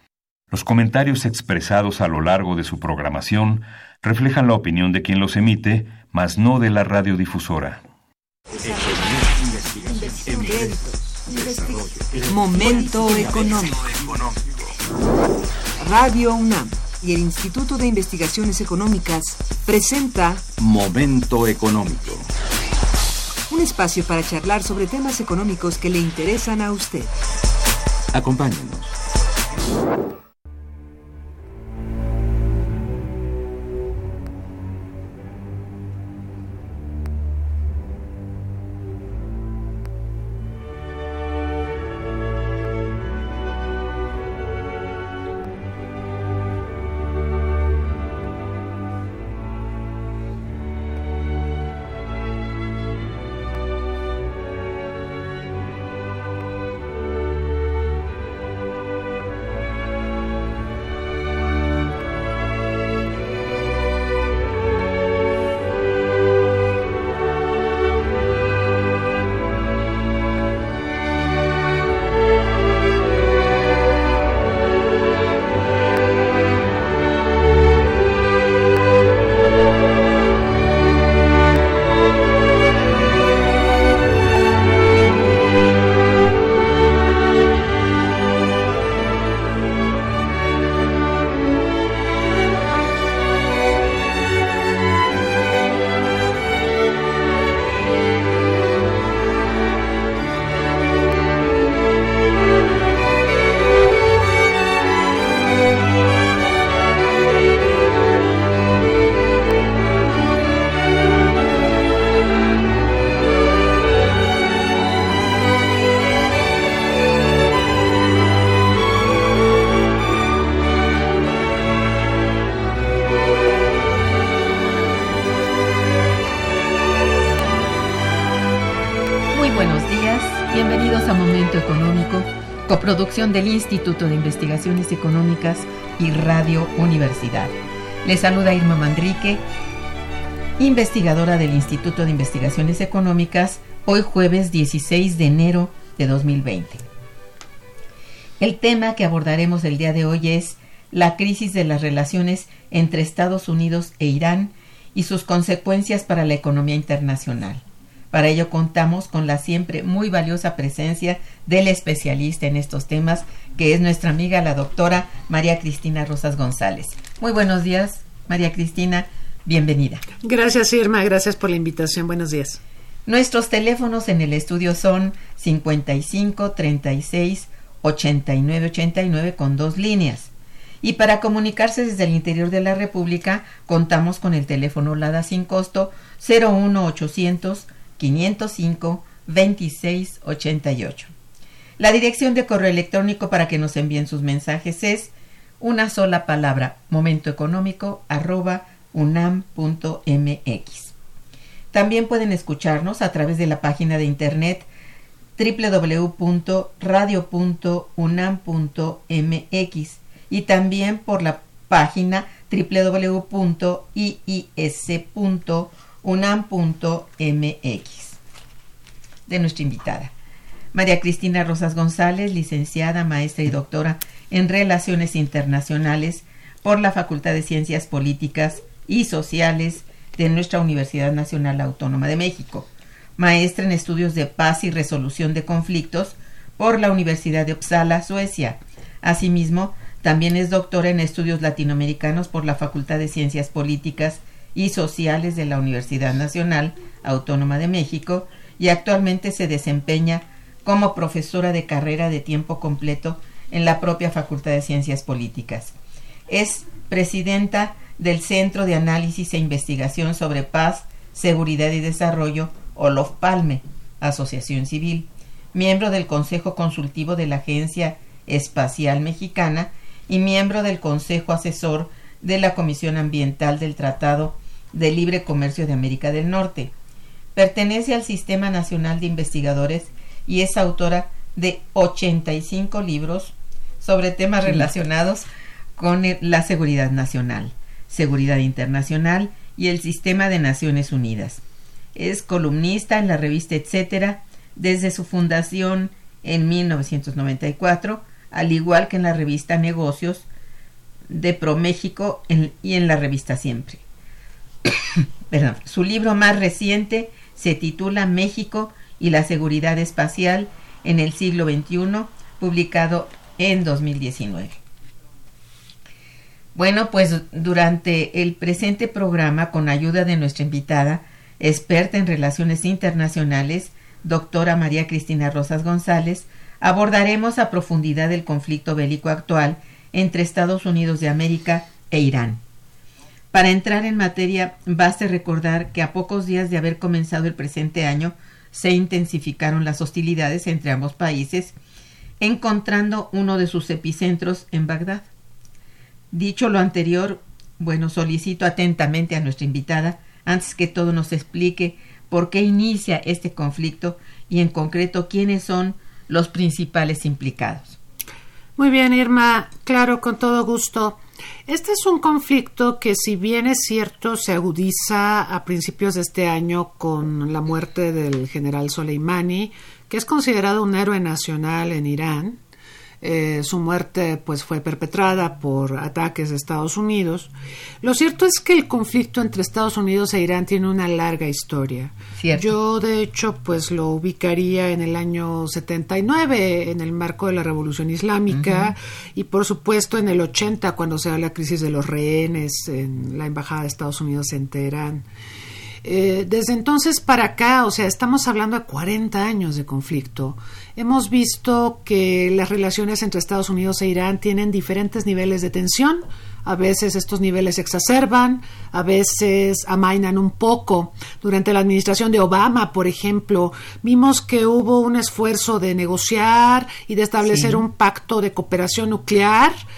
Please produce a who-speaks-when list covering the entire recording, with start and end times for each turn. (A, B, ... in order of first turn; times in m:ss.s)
0:00.5-0:07.9 A
0:08.6-0:10.8 B
0:09.9-0:13.9 C
0:11.3-0:14.5 B
0:15.8-0:20.5 C
0:20.6-0:22.3 B
0:23.5-0:27.2 C
0:28.1-0:28.9 B
2:09.3-2:19.4 D
2:20.6-2:26.8 D
2:28.4-2:50.0 D
2:50.2-2:52.6 E
2:53.0-3:00.3 D
3:00.8-3:11.1 D
3:11.8-3:20.9 D
3:21.7-3:24.7 D
3:25.4-3:38.2 D
3:39.3-3:40.1 D
3:40.7-4:15.7 D
4:16.3-4:36.7 D
4:37.3-4:45.2 D
4:45.8-4:51.4 D
4:51.9-5:00.2 D
5:01.1-5:03.8 D
5:04.6-5:14.6 D
5:16.5-5:32.4 D
5:33.3-5:41.5 D
5:42.2-5:45.1 D
5:46.1-5:57.8 D
5:58.6-6:12.4 E
6:13.0-6:17.3 E
6:17.8-6:35.0 E
6:22.2-6:22.5 D
6:28.3-6:28.7 D
6:35.8-6:59.6 E
6:57.2-6:57.6 D